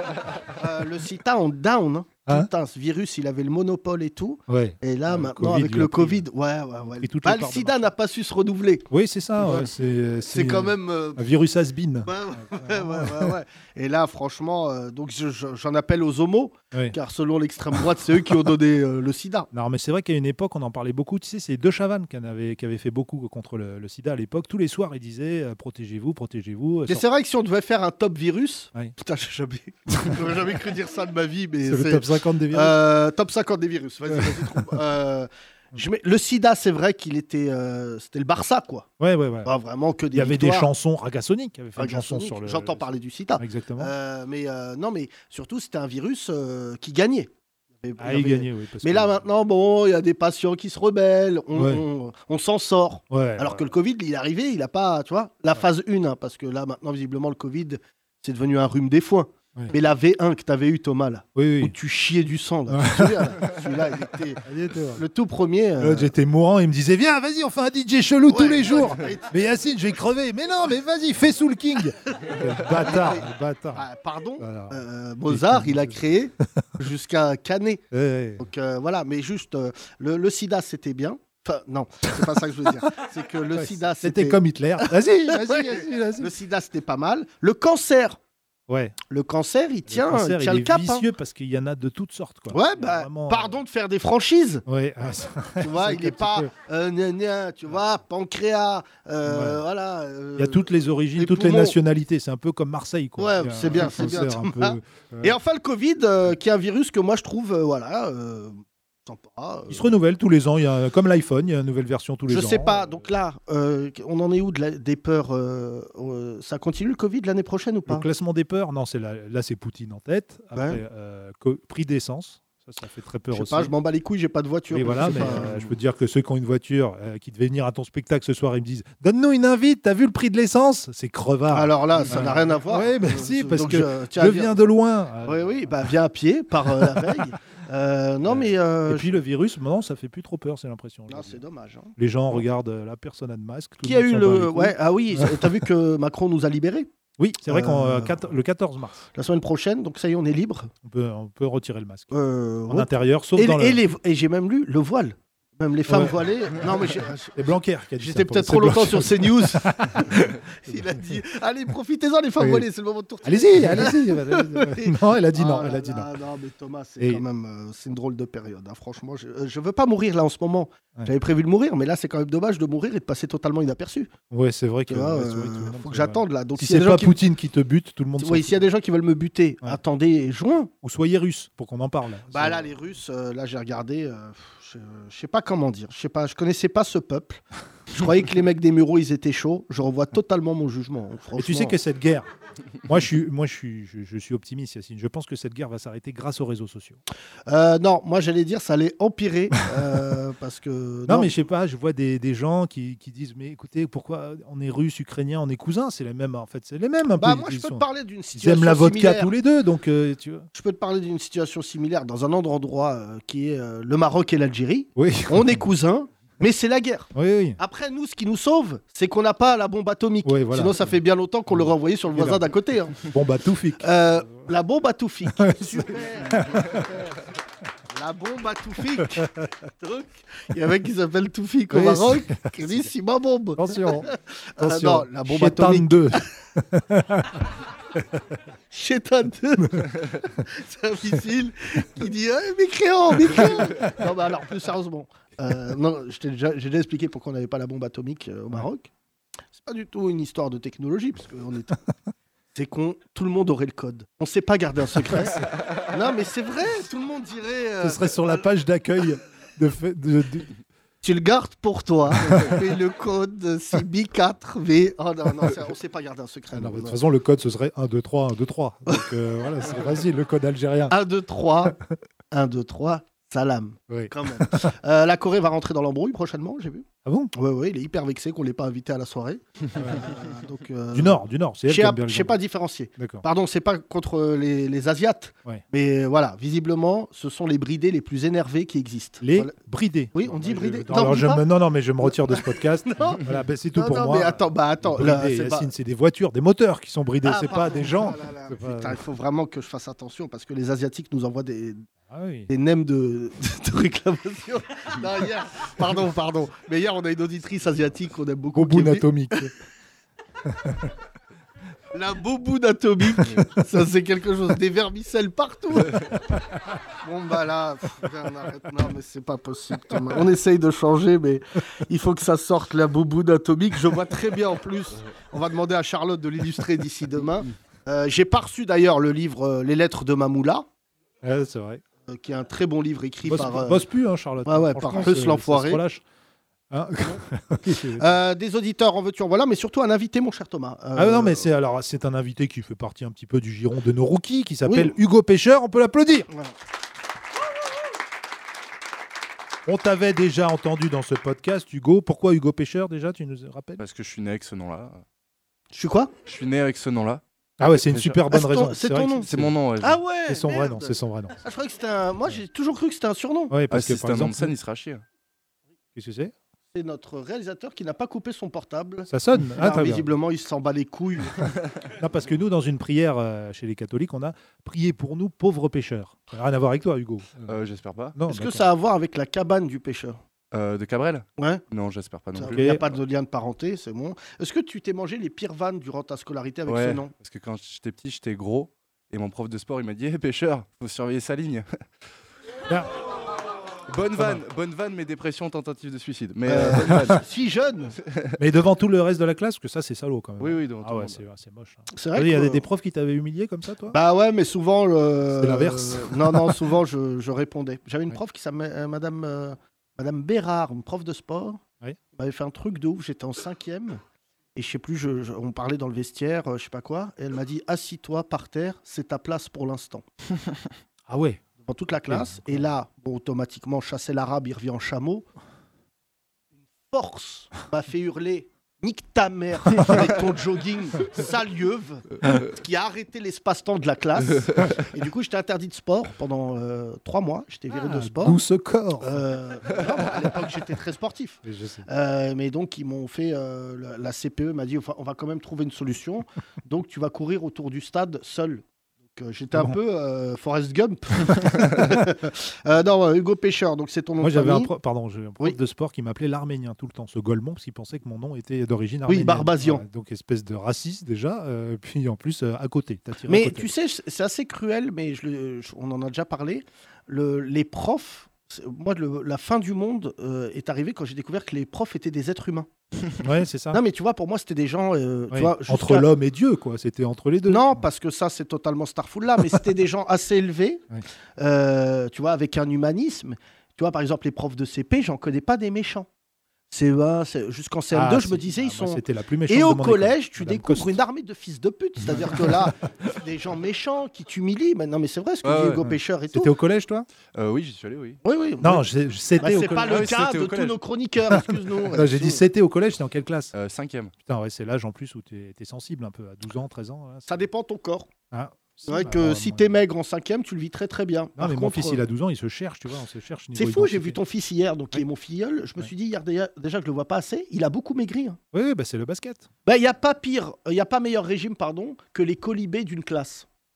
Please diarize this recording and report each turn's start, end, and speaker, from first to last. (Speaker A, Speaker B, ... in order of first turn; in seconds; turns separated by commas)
Speaker A: 0.6-8.9, Speaker B: 4.5-6.2, Speaker B: 7.0-7.9, Speaker B: 8.9-13.3, Speaker A: 9.4-9.7, Speaker A: 10.3-11.2, Speaker A: 12.1-19.5, Speaker B: 19.5-27.1, Speaker A: 26.9-38.9, Speaker B: 31.6-32.8, Speaker B: 34.1-34.7, Speaker B: 39.0-39.5, Speaker A: 39.4-40.7, Speaker B: 40.1-43.9, Speaker A: 41.8-66.1, Speaker B: 48.0-49.2, Speaker B: 51.5-51.8, Speaker B: 53.1-53.6, Speaker B: 61.4-61.7, Speaker B: 62.7-63.5, Speaker B: 64.4-65.0, Speaker B: 65.8-73.8, Speaker A: 68.3-69.3, Speaker A: 72.3-73.2, Speaker A: 73.7-77.8, Speaker B: 74.4-76.0, Speaker B: 77.9-78.4, Speaker A: 78.4-88.2, Speaker B: 83.5-86.3, Speaker B: 88.7-89.0, Speaker A: 89.1-91.1, Speaker B: 89.9-93.6, Speaker A: 92.5-94.6, Speaker B: 94.7-96.5, Speaker A: 95.6-100.6, Speaker B: 99.2-99.6, Speaker B: 100.4-105.4, Speaker A: 101.2-101.8, Speaker A: 103.2-109.9, Speaker B: 109.7-113.0, Speaker A: 112.3-118.1, Speaker B: 117.9-123.7, Speaker A: 120.5-120.8, Speaker A: 123.3-125.7, Speaker B: 124.7-135.7, Speaker A: 131.5-134.6, Speaker A: 135.2-139.2, Speaker B: 136.7-137.2, Speaker B: 138.2-141.4, Speaker A: 141.1-142.4, Speaker B: 141.9-145.5, Speaker A: 143.8-146.9, Speaker B: 147.2-149.1, Speaker A: 147.4-148.2, Speaker A: 149.1-150.7, Speaker B: 150.8-152.1, Speaker A: 152.1-174.1, Speaker B: 152.7-153.8, Speaker B: 155.9-160.3, Speaker B: 160.9-161.2, Speaker B: 162.4-162.7, Speaker B: 163.2-166.1, Speaker B: 167.0-167.2, Speaker B: 174.3-178.6, Speaker A: 174.9-177.2, Speaker A: 178.2-180.7, Speaker B: 180.8-182.7, Speaker A: 182.3-191.8, Speaker B: 191.4-192.3, Speaker B: 192.9-197.0, Speaker A: 197.5-201.3, Speaker B: 201.1-210.5, Speaker A: 207.2-209.3, Speaker A: 210.5-223.0, Speaker B: 214.9-215.6, Speaker B: 217.1-217.6, Speaker B: 220.2-220.8, Speaker B: 221.5-222.5, Speaker B: 223.0-223.9, Speaker A: 223.8-227.0, Speaker B: 225.4-227.0, Speaker A: 227.9-236.3, Speaker B: 231.7-232.9, Speaker B: 233.6-234.1, Speaker B: 234.6-237.3, Speaker A: 238.7-248.9, Speaker B: 243.3-243.6, Speaker A: 249.6-251.8, Speaker A: 252.6-258.4, Speaker B: 255.1-255.5, Speaker B: 257.8-260.5, Speaker A: 261.0-267.0, Speaker B: 262.2-262.6, Speaker B: 266.5-270.9, Speaker A: 270.9-271.8, Speaker A: 272.3-289.5, Speaker B: 273.9-274.7, Speaker B: 277.0-277.3, Speaker B: 279.8-280.1, Speaker B: 280.9-282.4, Speaker B: 283.0-283.2, Speaker B: 289.2-299.0, Speaker A: 290.1-291.5, Speaker A: 292.0-295.7, Speaker A: 297.2-301.9, Speaker B: 302.1-302.5, Speaker A: 302.5-309.5, Speaker B: 308.5-309.5, Speaker B: 310.5-310.9, Speaker A: 311.9-316.1, Speaker A: 317.0-330.6, Speaker B: 331.2-331.8, Speaker A: 332.1-333.8, Speaker B: 333.2-336.0, Speaker A: 334.4-335.8, Speaker B: 336.7-338.1, Speaker A: 338.0-341.5, Speaker B: 340.9-346.3, Speaker A: 344.6-345.0, Speaker B: 349.6-353.8, Speaker C: 353.8-355.0, Speaker A: 355.7-356.1, Speaker C: 356.2-358.2, Speaker B: 357.6-359.5, Speaker A: 358.3-359.3, Speaker C: 359.2-360.0, Speaker A: 359.8-363.5, Speaker B: 360.3-361.4, Speaker B: 363.5-364.5, Speaker C: 363.7-365.0, Speaker B: 365.9-366.3, Speaker A: 366.7-371.5, Speaker B: 369.1-370.1, Speaker B: 371.9-377.5, Speaker C: 377.5-378.1, Speaker B: 378.1-378.7, Speaker A: 378.3-380.2, Speaker C: 380.5-382.9, Speaker A: 381.4-381.6, Speaker A: 382.4-387.1, Speaker B: 382.5-382.8, Speaker C: 386.7-391.8, Speaker C: 393.9-397.2, Speaker B: 394.1-394.4, Speaker A: 396.5-398.0, Speaker B: 398.4-404.0, Speaker C: 400.4-401.2, Speaker A: 401.9-402.6, Speaker A: 403.9-411.6, Speaker B: 405.4-406.6, Speaker A: 412.1-414.0, Speaker A: 414.5-420.0, Speaker B: 421.1-421.4, Speaker A: 421.6-425.2, Speaker B: 422.1-422.6, Speaker A: 426.9-438.4, Speaker B: 437.7-439.2, Speaker A: 439.0-454.7, Speaker B: 441.4-441.9, Speaker B: 454.2-463.7, Speaker A: 459.1-459.8, Speaker A: 463.3-472.7, Speaker B: 473.2-473.8, Speaker A: 473.7-476.1, Speaker B: 475.3-477.8, Speaker A: 477.5-480.9, Speaker A: 481.4-486.1, Speaker A: 486.7-496.5, Speaker B: 487.9-491.0, Speaker C: 495.4-495.8, Speaker B: 496.3-497.1, Speaker C: 497.4-498.2, Speaker A: 498.2-498.9, Speaker B: 498.6-500.1, Speaker A: 499.4-502.4, Speaker C: 499.9-500.8, Speaker B: 501.3-503.5, Speaker C: 503.5-504.1, Speaker B: 504.2-507.5, Speaker A: 507.2-508.1, Speaker B: 508.3-509.8, Speaker A: 508.9-512.0, Speaker B: 511.4-514.2, Speaker A: 513.5-518.4, Speaker B: 518.5-519.5, Speaker A: 519.6-523.5